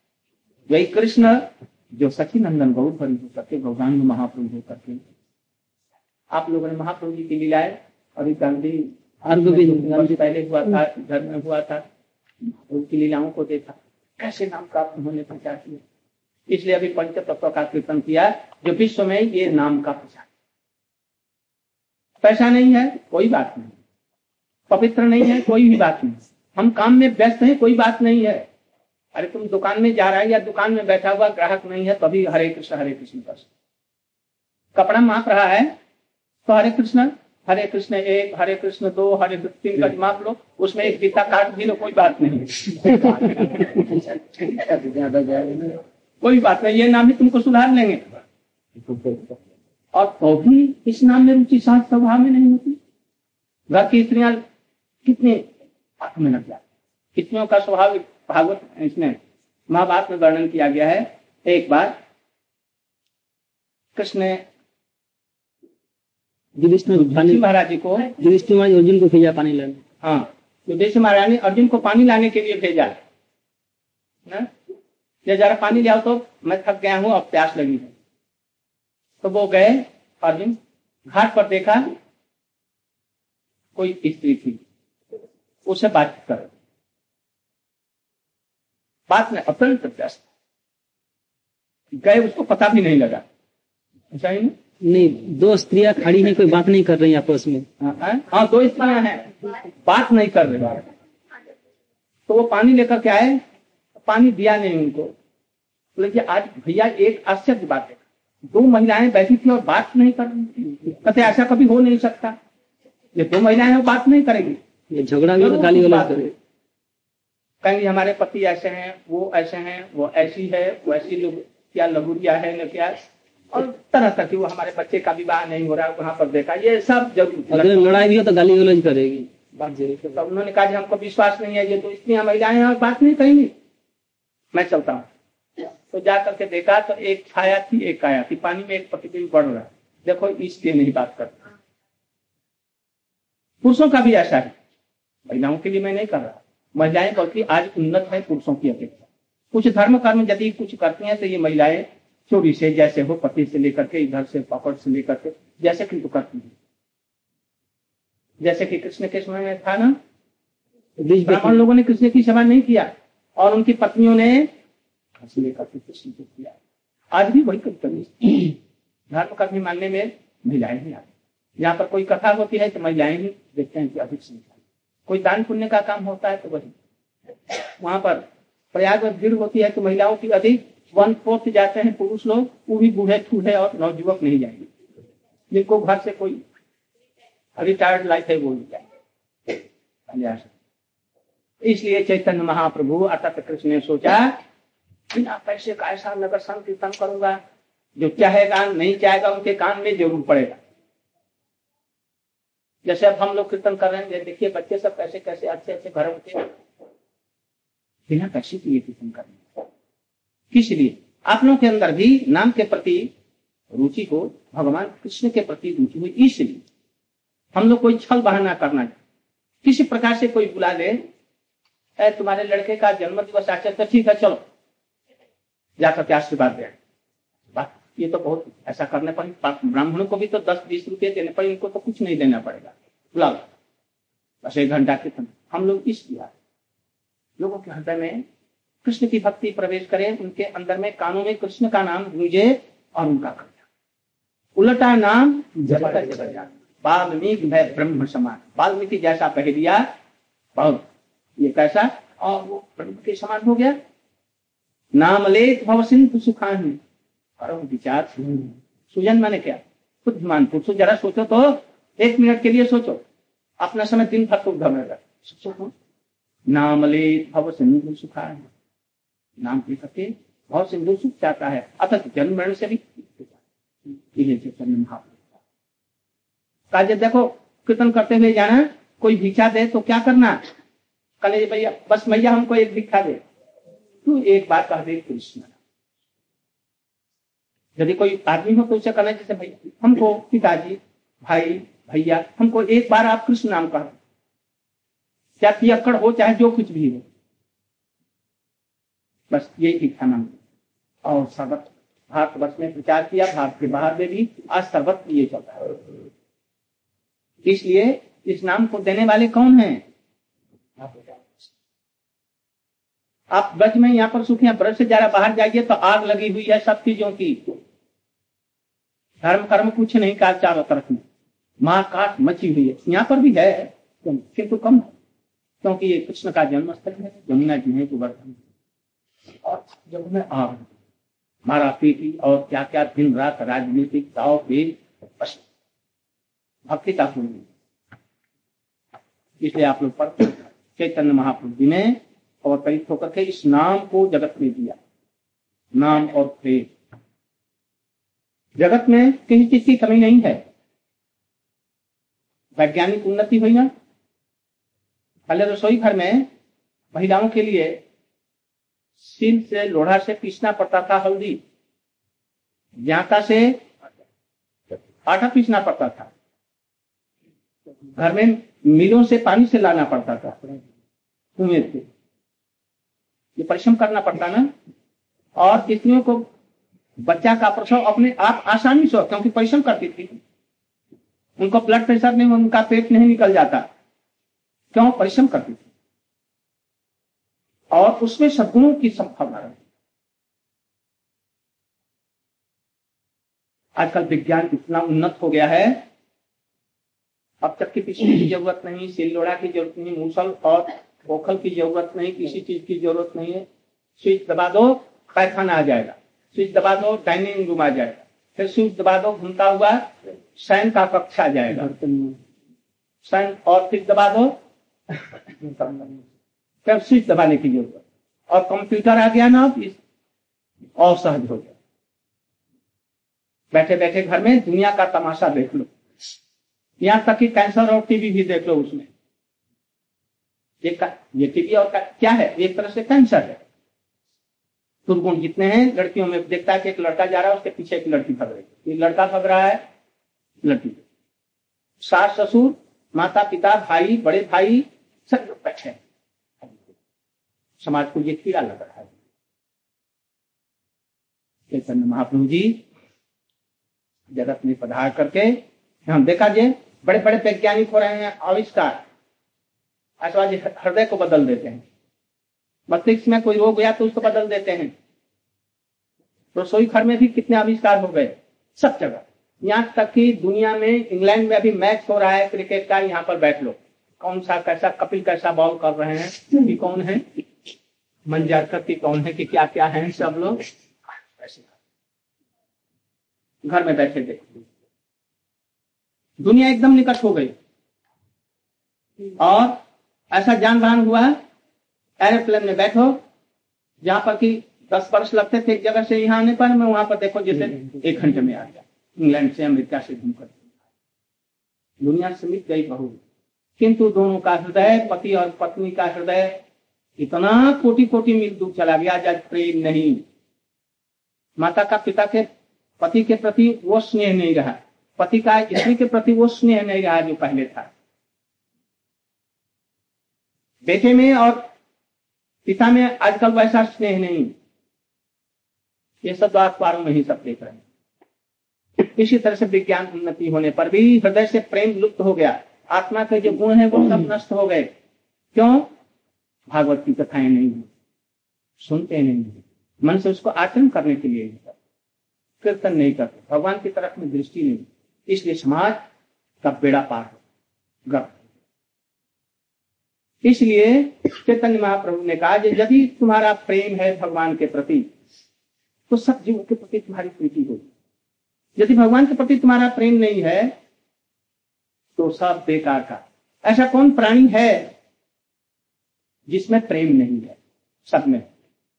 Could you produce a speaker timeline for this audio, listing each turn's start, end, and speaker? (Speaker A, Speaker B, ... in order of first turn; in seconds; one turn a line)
Speaker A: 0.7-5.0
Speaker A: 6.3-11.8
Speaker B: 9.2-10.2
Speaker A: 12.7-15.8
Speaker A: 16.5-20.3
Speaker A: 22.2-23.7
Speaker A: 24.7-28.4
Speaker A: 29.1-33.5
Speaker A: 34.7-35.7
Speaker A: 36.4-43.9
Speaker B: 44.4-45.8
Speaker A: 46.2-48.0
Speaker B: 48.8-49.4
Speaker A: 49.9-52.8
Speaker A: 53.7-54.4
Speaker A: 55.0-55.4
Speaker A: 56.0-56.6
Speaker A: 57.1-59.2
Speaker A: 59.7-61.9
Speaker A: 63.9-64.4
Speaker B: 66.6-67.4
Speaker A: 66.9-68.1
Speaker B: 68.1-69.8
Speaker A: 70.0-73.0
Speaker A: 75.2-77.9
Speaker A: 79.2-80.6
Speaker A: 81.1-81.9
Speaker A: 83.8-84.6
Speaker A: 85.7-86.5
Speaker A: 89.1-90.2
Speaker A: 92.0-93.2
Speaker A: 94.1-94.5
Speaker B: 94.8-97.7
Speaker A: 97.8-100.9
Speaker A: 102.3-103.4
Speaker A: 104.0-105.1
Speaker A: 106.0-112.3
Speaker A: 113.1-114.6
Speaker B: 114.9-116.3
Speaker A: 115.3-116.3
Speaker A: 117.6-123.0
Speaker A: 123.5-128.0
Speaker B: 127.5-130.2
Speaker A: 130.1-133.5
Speaker A: 134.5-135.1
Speaker A: 135.9-141.4
Speaker A: 143.6-144.5
Speaker A: 145.3-149.0
Speaker A: 149.5-156.5
Speaker A: 158.4-159.9
Speaker B: 161.0-161.6
Speaker A: 161.2-164.5
Speaker A: 165.2-166.5
Speaker A: 167.1-168.6
Speaker A: 169.1-171.1
Speaker A: 171.6-174.5
Speaker A: 175.1-176.7
Speaker A: 177.8-184.7
Speaker A: 185.5-186.4
Speaker A: 187.6-188.8
Speaker A: 190.1-190.5
Speaker A: 191.6-194.4
Speaker A: 195.1-197.4
Speaker A: 198.0-200.6
Speaker A: 202.8-206.5
Speaker A: 208.1-209.6
Speaker A: 210.5-213.1
Speaker A: 213.7-216.6
Speaker A: 217.5-218.9
Speaker A: 219.6-221.0
Speaker A: 222.0-224.4
Speaker A: 225.8-226.8
Speaker A: 227.5-233.4
Speaker A: 234.4-236.3
Speaker A: 237.4-238.2
Speaker A: 238.8-243.6
Speaker A: 244.6-249.9
Speaker A: 250.6-250.8
Speaker A: 251.4-253.8
Speaker A: 254.9-256.8
Speaker A: 257.4-263.0
Speaker A: 263.6-265.7
Speaker A: 266.5-268.5
Speaker A: 269.4-273.3
Speaker A: 274.1-275.2
Speaker A: 276.7-280.4
Speaker A: 281.2-283.2
Speaker A: 284.0-285.5
Speaker A: 287.8-294.0
Speaker A: 295.4-297.0
Speaker A: 299.3-300.4
Speaker A: 301.0-305.8
Speaker A: 307.4-309.8
Speaker A: 313.3-317.6
Speaker A: 319.2-321.0
Speaker A: 321.6-324.9
Speaker A: 325.6-328.4
Speaker A: 329.4-330.7
Speaker A: 331.4-335.4
Speaker A: 336.7-337.5
Speaker A: 339.4-344.8
Speaker A: 345.7-346.7
Speaker A: 348.6-350.4
Speaker A: 352.6-353.7
Speaker A: 355.3-356.3
Speaker A: 356.9-357.8
Speaker A: 359.0-361.4
Speaker A: 362.8-363.7
Speaker A: 365.0-366.1
Speaker A: 368.0-370.4
Speaker A: 371.4-371.9
Speaker A: 373.4-374.5
Speaker A: 375.4-376.3
Speaker A: 377.0-380.2
Speaker A: 381.4-383.6
Speaker A: 384.7-385.6
Speaker A: 387.7-389.6
Speaker A: 393.8-395.8
Speaker A: 397.4-403.4
Speaker A: 404.0-411.7
Speaker B: 411.7-412.2
Speaker A: 413.0-414.4
Speaker A: 415.6-415.9
Speaker A: 416.6-419.8
Speaker A: 420.8-421.5
Speaker A: 423.5-425.7
Speaker A: 426.8-428.9
Speaker A: 430.6-433.4
Speaker A: 434.9-439.6
Speaker A: 440.4-440.8
Speaker A: 441.8-445.8
Speaker A: 447.6-448.9
Speaker A: 451.5-452.6
Speaker A: 454.1-458.8
Speaker A: 460.0-461.6
Speaker A: 462.7-464.7
Speaker A: 466.3-477.0
Speaker A: 478.1-480.4
Speaker A: 481.2-481.5
Speaker A: 483.4-484.4
Speaker A: 486.2-487.3
Speaker A: 489.2-489.6
Speaker A: 490.1-491.1
Speaker A: 492.0-493.0
Speaker A: 493.8-500.4
Speaker A: 501.8-503.0
Speaker A: 503.6-506.4
Speaker A: 507.0-510.0
Speaker A: 511.4-512.3
Speaker A: 512.8-517.7
Speaker A: 520.6-521.4
Speaker A: 522.5-524.3
Speaker A: 526.0-527.6
Speaker A: 528.8-534.7
Speaker A: 535.3-535.7
Speaker A: 536.5-537.7
Speaker A: 538.6-541.5
Speaker A: 542.4-545.8
Speaker A: 546.4-547.2
Speaker A: 547.9-548.2
Speaker A: 550.2-554.9
Speaker A: 555.9-557.7
Speaker A: 558.6-560.5
Speaker A: 562.0-564.7
Speaker A: 566.3-568.2